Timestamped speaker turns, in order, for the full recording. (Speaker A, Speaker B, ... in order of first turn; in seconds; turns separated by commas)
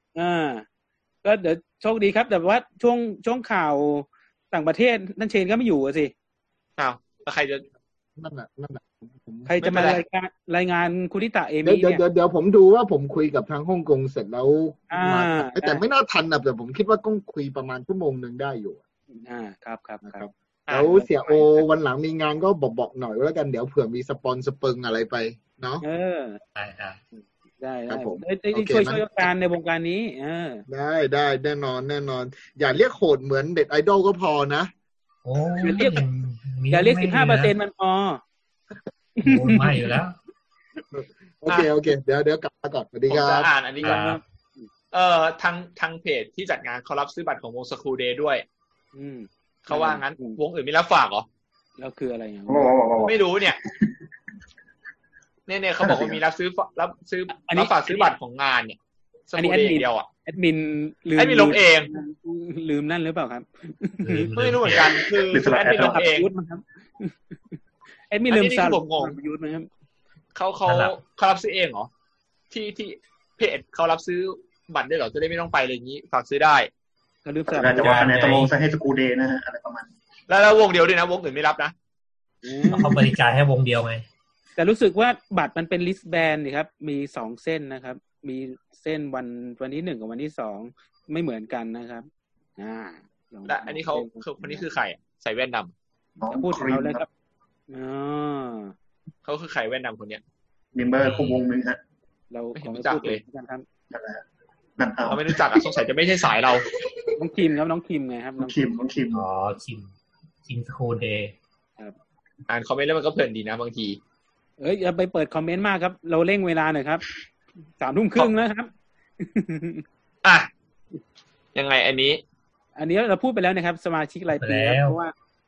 Speaker A: 0.1-0.7, Speaker A: 1.2-6.1, Speaker B: 6.8-7.6, Speaker C: 8.2-9.5, Speaker A: 9.4-12.0, Speaker B: 9.6-10.0, Speaker C: 11.6-18.8, Speaker A: 14.9-15.8, Speaker A: 19.1-20.2, Speaker C: 20.1-25.8, Speaker B: 20.7-20.9, Speaker A: 20.8-21.6, Speaker A: 25.8-26.4, Speaker D: 26.6-27.0, Speaker A: 27.1-30.6, Speaker C: 27.9-29.3, Speaker C: 30.7-34.7, Speaker D: 35.2-37.5, Speaker A: 35.6-36.0, Speaker A: 36.7-38.2, Speaker A: 39.2-40.0, Speaker D: 39.2-40.1, Speaker C: 40.9-43.5, Speaker B: 43.1-44.0, Speaker A: 43.8-44.7, Speaker D: 43.8-44.2, Speaker B: 44.9-48.4, Speaker A: 48.9-50.4, Speaker B: 49.6-51.2, Speaker A: 51.8-52.7, Speaker E: 52.5-53.9, Speaker B: 53.0-53.6, Speaker B: 55.5-58.8, Speaker E: 55.8-56.2, Speaker A: 57.4-58.1, Speaker B: 59.3-60.1, Speaker A: 59.4-64.3, Speaker B: 61.2-61.9, Speaker D: 64.0-64.9, Speaker B: 64.3-66.3, Speaker E: 65.3-66.0, Speaker A: 65.8-69.7, Speaker B: 68.3-69.2, Speaker B: 70.3-71.9, Speaker D: 70.7-71.0, Speaker B: 72.5-76.7, Speaker A: 77.2-78.1, Speaker E: 77.5-79.9, Speaker D: 77.8-78.5, Speaker B: 80.3-81.7, Speaker A: 82.4-83.1, Speaker D: 82.7-84.0, Speaker A: 84.6-94.6, Speaker B: 93.5-95.7, Speaker E: 96.2-97.0, Speaker A: 96.3-97.1, Speaker A: 97.7-98.7, Speaker B: 99.2-100.2, Speaker E: 100.7-101.8, Speaker D: 101.0-101.4, Speaker A: 102.3-103.6, Speaker B: 102.5-103.2, Speaker E: 103.9-104.2, Speaker E: 104.8-105.5, Speaker B: 105.1-106.6, Speaker A: 107.2-108.6, Speaker E: 108.4-109.2, Speaker D: 109.1-109.9, Speaker D: 110.4-111.3, Speaker B: 112.5-114.0, Speaker A: 114.6-117.0, Speaker A: 117.8-119.8, Speaker B: 120.2-120.5, Speaker B: 121.5-122.2, Speaker A: 122.8-125.1, Speaker D: 124.4-125.0